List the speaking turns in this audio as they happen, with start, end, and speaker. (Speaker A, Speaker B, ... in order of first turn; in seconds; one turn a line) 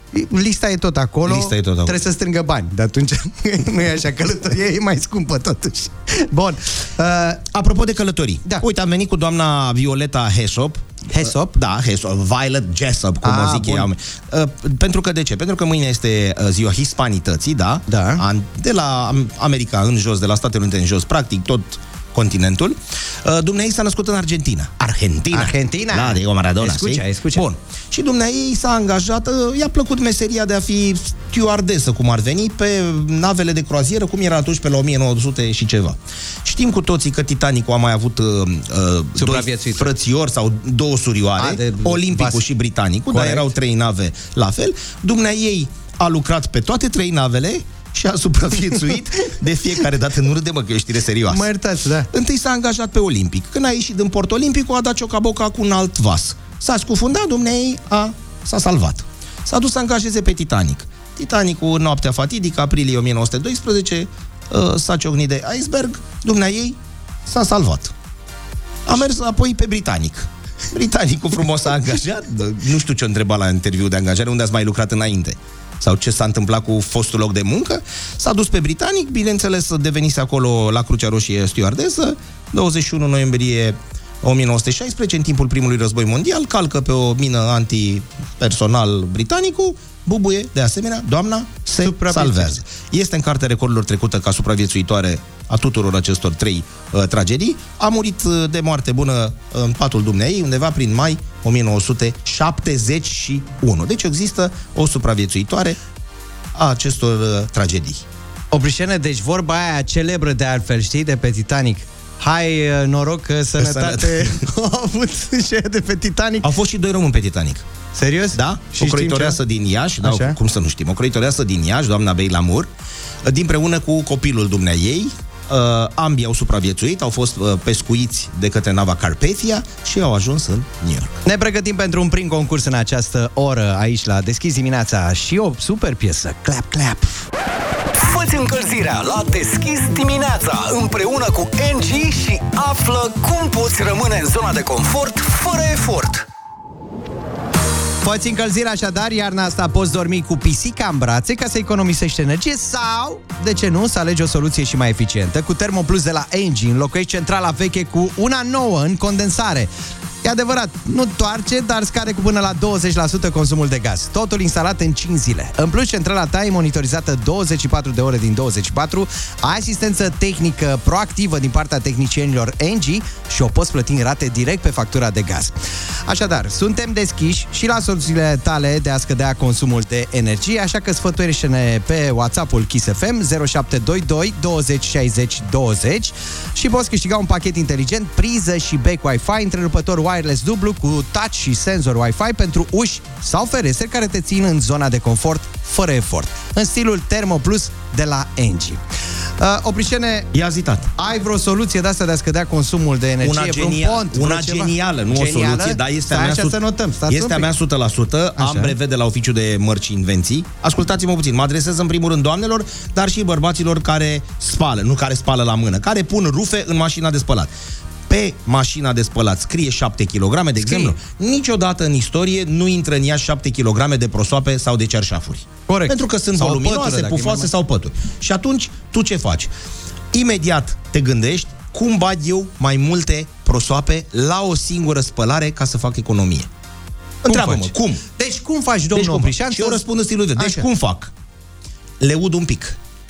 Speaker A: 0.1-7.5
Speaker B: 1.2-2.0
Speaker B: 7.5-51.5
Speaker A: 11.1-11.6
Speaker A: 13.2-13.9
Speaker A: 17.9-18.2
Speaker A: 25.3-27.5
Speaker A: 39.1-39.9
Speaker A: 41.4-42.4
Speaker A: 43.1-43.5
Speaker A: 51.3-52.1
Speaker B: 52.1-67.9
Speaker B: 68.8-105.8
Speaker A: 91.8-92.6
Speaker B: 106.5-108.0
Speaker A: 108.5-116.5
Speaker B: 113.6-114.4
Speaker B: 116.4-117.6
Speaker A: 118.0-119.4
Speaker B: 118.3-122.7
Speaker A: 120.0-120.4
Speaker B: 123.2-131.2
Speaker A: 131.2-137.2
Speaker C: 138.0-146.2
Speaker A: 148.0-159.7
Speaker A: 160.2-175.5
Speaker A: 176.1-198.8
Speaker A: 199.4-200.3
Speaker B: 200.3-200.9
Speaker A: 201.0-207.5
Speaker B: 203.2-206.6
Speaker B: 207.1-217.5
Speaker A: 208.4-208.7
Speaker B: 218.1-229.5
Speaker A: 220.6-220.9
Speaker A: 225.7-227.5
Speaker B: 230.1-236.5
Speaker A: 237.2-239.8
Speaker B: 237.2-238.0
Speaker B: 238.9-241.1
Speaker A: 240.3-240.7
Speaker B: 242.0-242.8